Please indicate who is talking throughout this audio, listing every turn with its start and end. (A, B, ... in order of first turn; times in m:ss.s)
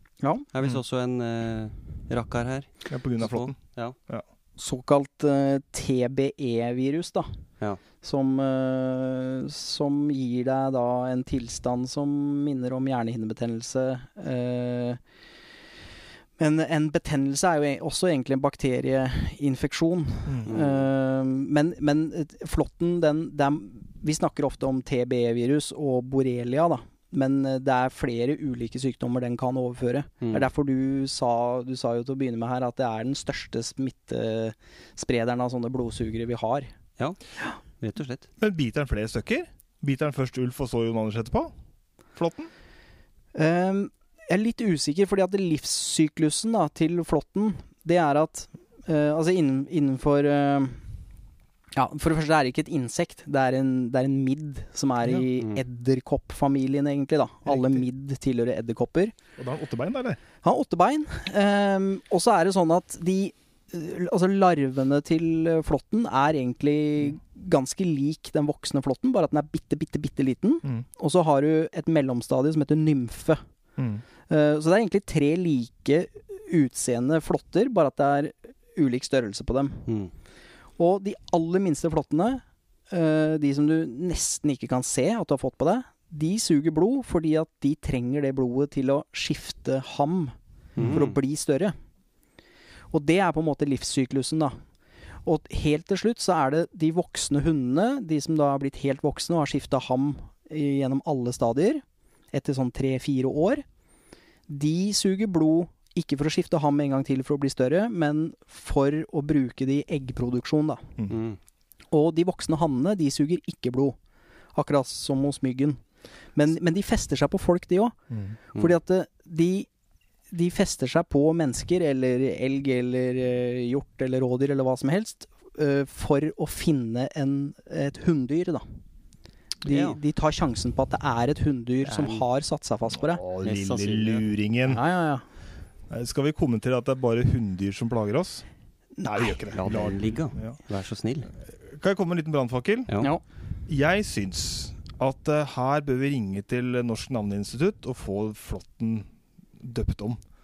0:00.5-0:04.0 A
0:02.9-0:03.6 B
0:04.6-0:07.3 C
0:08.0-0:15.0 C
0:16.4-0:36.7 C
0:20.3-0:20.5 B
0:20.4-0:20.9 A
0:30.2-0:30.5 A
0:37.8-0:38.3 A
0:38.4-0:41.5 B
0:42.1-0:42.5 B
0:43.3-0:50.8 C
0:51.7-0:59.1 C
0:57.4-0:57.8 B
0:59.4-1:00.2 B
1:00.4-1:13.4 C
1:13.8-1:14.0 B
1:14.3-1:19.8 C
1:19.8-1:20.1 A
1:20.8-1:30.3 C
1:30.8-1:31.2 A
1:30.8-1:31.7 C
1:32.9-1:34.6 C
1:35.2-1:43.6 C
1:44.5-1:50.9 C
1:51.1-1:51.4 A
1:51.9-1:54.0 C
1:54.5-1:55.8 C
1:56.3-1:58.0 C
1:58.1-1:58.4 B
1:58.5-1:59.7 C
2:00.3-2:08.6 C
2:09.6-2:13.2 C
2:09.6-2:10.0 A
2:11.8-2:12.2 A
2:13.0-2:14.8 B
2:13.4-2:14.3 A
2:14.6-2:15.2 C
2:15.9-2:18.4 B
2:19.0-2:19.4 C
2:19.0-2:20.6 B
2:19.5-2:21.3 A
2:21.5-2:22.9 B
2:23.7-2:29.1 B
2:29.6-2:30.2 B